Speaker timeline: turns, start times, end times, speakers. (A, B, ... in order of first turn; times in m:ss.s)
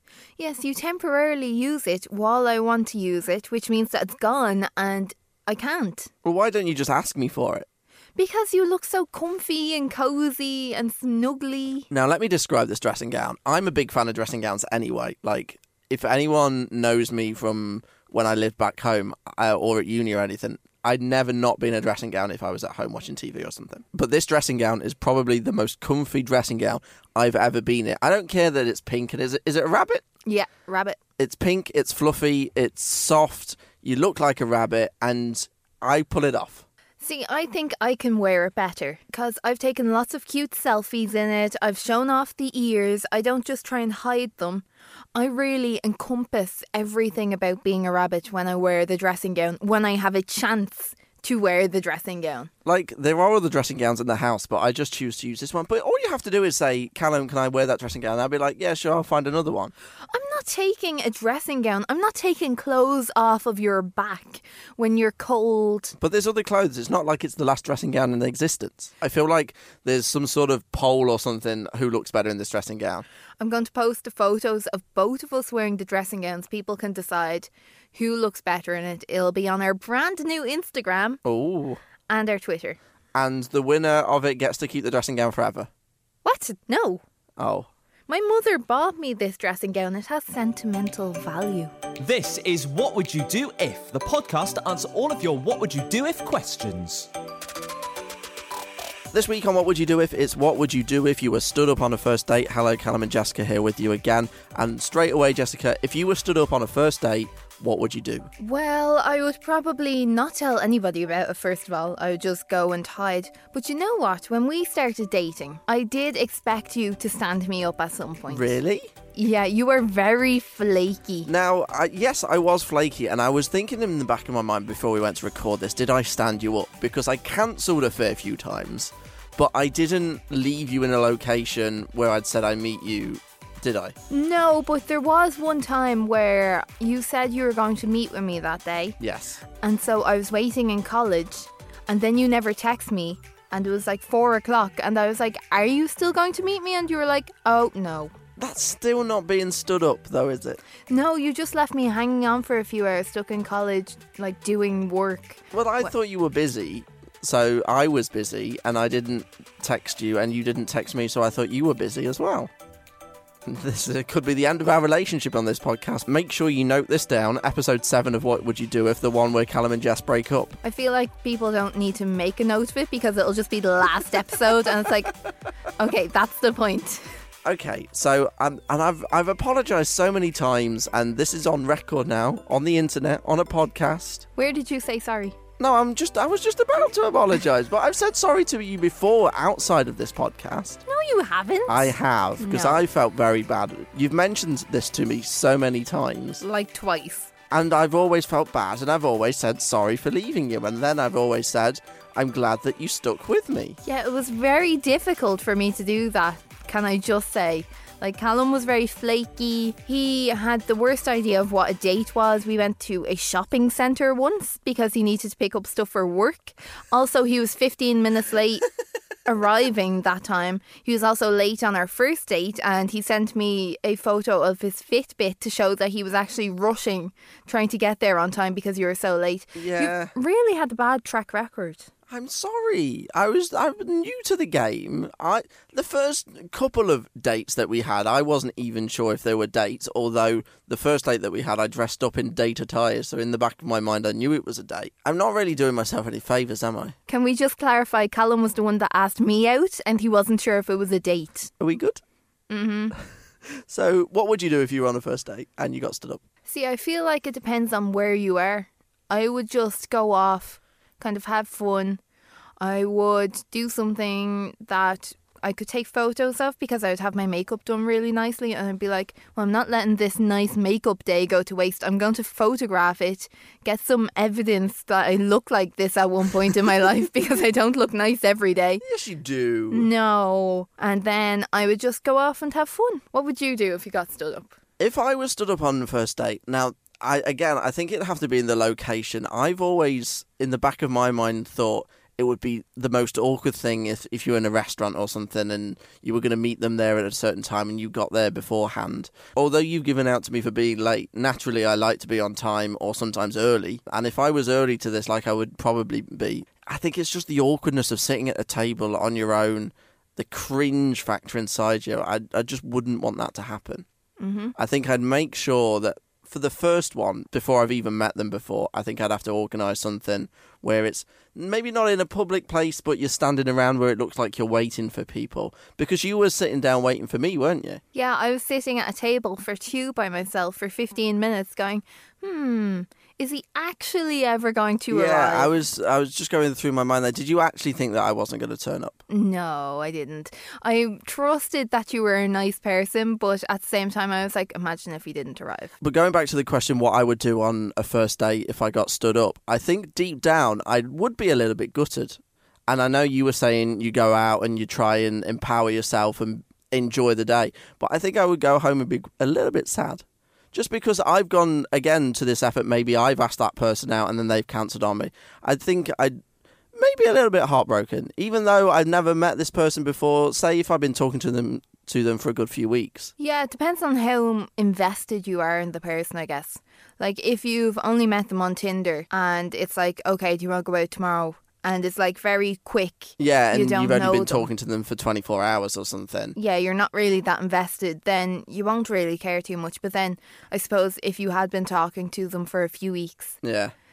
0:00.4-0:06.1 A
0:06.2-0:07.6 B
0:08.2-0:11.9 A
0:11.9-0:30.0 B
0:30.2-0:31.0 A
0:31.2-0:36.6 B
0:37.0-0:52.5 A
0:52.6-0:59.7 B
1:00.1-1:06.0 A
1:06.0-1:13.0 B
1:13.4-1:21.2 A
1:21.2-1:21.8 B
1:22.1-1:22.8 A
1:23.1-1:25.7 B
1:26.2-1:27.0 A
1:27.4-1:27.7 B
1:28.1-1:31.7 A
1:32.0-1:37.1 C
1:39.1-1:48.3 B
1:48.4-1:58.5 A
1:58.3-1:58.9 B
1:59.1-2:01.3 A
2:01.3-2:13.9 B
2:14.1-2:19.0 A
2:19.0-2:19.4 B
2:19.5-2:28.1 A
2:28.4-2:30.6 B
2:30.9-2:35.5 A
2:35.5-2:42.5 B
2:43.4-2:50.6 B
2:50.6-2:55.2 A
2:55.7-2:57.1 A
2:57.4-3:04.2 B
3:04.4-3:05.4 A
3:05.6-3:10.8 B
3:10.9-3:12.8 A
3:11.7-3:16.4 B
3:16.4-3:17.3 A
3:17.5-3:23.8 B
3:23.8-3:38.7 A
3:39.2-3:51.9 A
3:49.6-3:50.1 B
3:52.1-4:06.9 B
4:07.1-4:11.5 A
4:11.6-4:12.0 B
4:12.5-4:13.0 A
4:13.5-4:16.2 B
4:16.4-4:22.0 A
4:22.6-4:38.8 A
4:38.8-4:39.9 B
4:39.7-4:44.5 A
4:44.8-5:13.8 B
5:14.2-5:14.6 A
5:14.6-5:27.8 B
5:27.9-5:35.6 A
5:34.9-5:39.0 B
5:39.1-5:45.7 A
5:45.8-6:06.2 B
6:06.8-6:13.1 B
6:13.2-6:24.5 A
6:23.2-6:26.4 B
6:26.4-6:33.4 A
6:33.4-6:33.7 B